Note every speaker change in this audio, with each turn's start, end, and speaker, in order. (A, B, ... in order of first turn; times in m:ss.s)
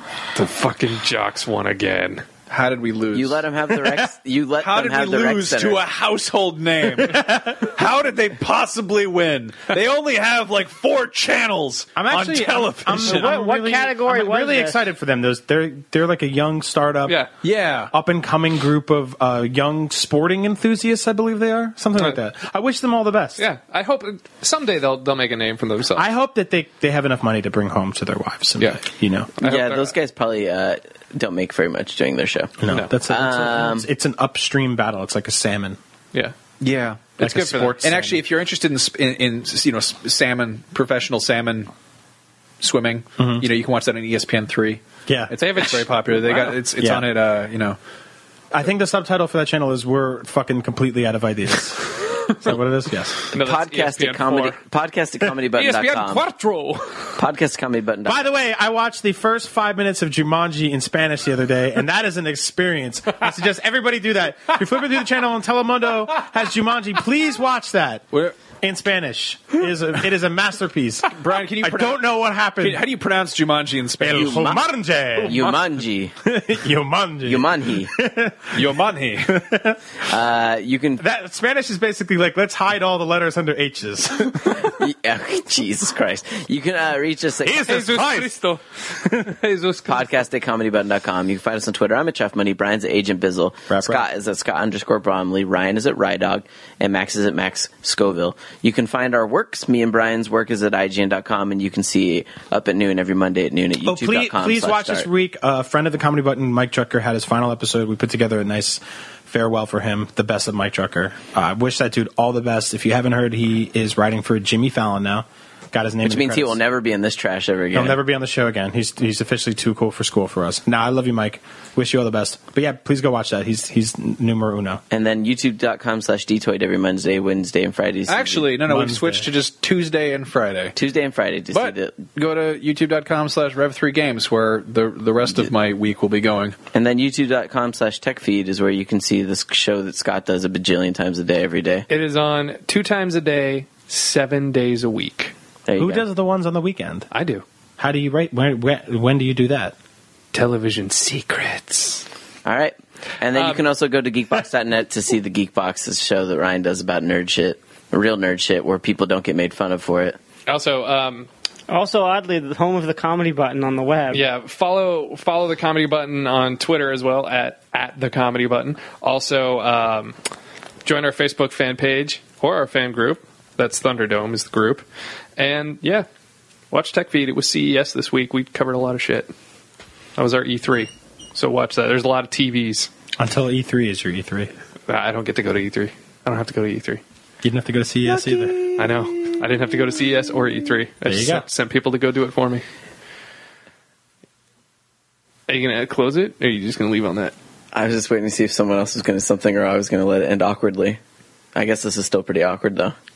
0:00.3-0:02.3 A
0:02.5-0:04.1 B
0:03.1-0:05.8 C
0:04.6-0:13.4 B
0:07.0-0:07.6 D
0:12.0-0:17.2 D
0:13.0-0:14.8 E
0:17.4-0:17.9 B
0:17.9-0:23.4 D
0:23.4-0:26.0 A
0:26.0-0:29.3 D
0:29.4-0:29.9 A
0:29.4-0:33.9 C
0:32.6-0:35.8 D
0:32.7-0:32.9 A
0:36.6-0:41.7 B
0:37.2-0:38.2 D
0:42.6-0:47.8 B
0:43.2-0:43.4 D
0:45.1-0:45.6 D
0:46.8-0:47.0 D
0:48.5-0:53.2 D
0:53.2-0:54.6 A
0:53.3-0:56.2 C
0:55.5-0:57.2 A
0:57.2-0:58.2 C
0:58.1-1:08.1 D
1:08.6-1:12.8 D
1:11.1-1:12.0 B
1:12.6-1:14.5 B
1:14.0-1:15.5 D
1:14.1-1:14.6 C
1:15.2-1:16.2 C
1:16.2-1:18.7 D
1:17.3-1:17.9 C
1:18.5-1:19.4 B
1:19.2-1:19.8 D
1:20.0-1:21.0 C
1:21.0-1:24.8 D
1:24.7-1:27.8 C
1:27.4-1:28.3 D
1:27.6-1:30.0 A
1:29.0-1:29.3 D
1:29.8-1:45.1 C
1:33.7-1:34.0 D
1:43.8-1:56.6 D
1:56.0-1:58.0 C
1:57.7-2:04.8 D
2:04.9-2:08.5 C
2:08.1-2:10.8 B
2:08.7-2:09.3 D
2:10.8-2:12.0 C
2:11.5-2:16.6 B
2:16.7-2:21.9 C
2:21.9-2:25.3 A
2:25.7-2:26.0 C
2:25.8-2:27.1 D
2:27.1-2:27.4 A
2:27.8-2:29.8 D
2:30.3-2:32.0 A
2:32.4-2:40.2 C
2:33.3-2:33.6 A
2:40.5-2:41.3 A
2:41.7-2:44.2 E
2:44.1-2:50.2 A
2:50.8-2:54.8 A
2:55.4-2:56.1 A
2:56.7-2:59.3 A
3:00.2-3:02.9 A
3:03.2-3:04.5 D
3:04.9-3:07.0 A
3:07.4-3:08.6 D
3:08.6-3:12.6 A
3:11.0-3:11.5 D
3:15.5-3:17.3 A
3:17.7-3:21.0 C
3:21.6-3:23.0 C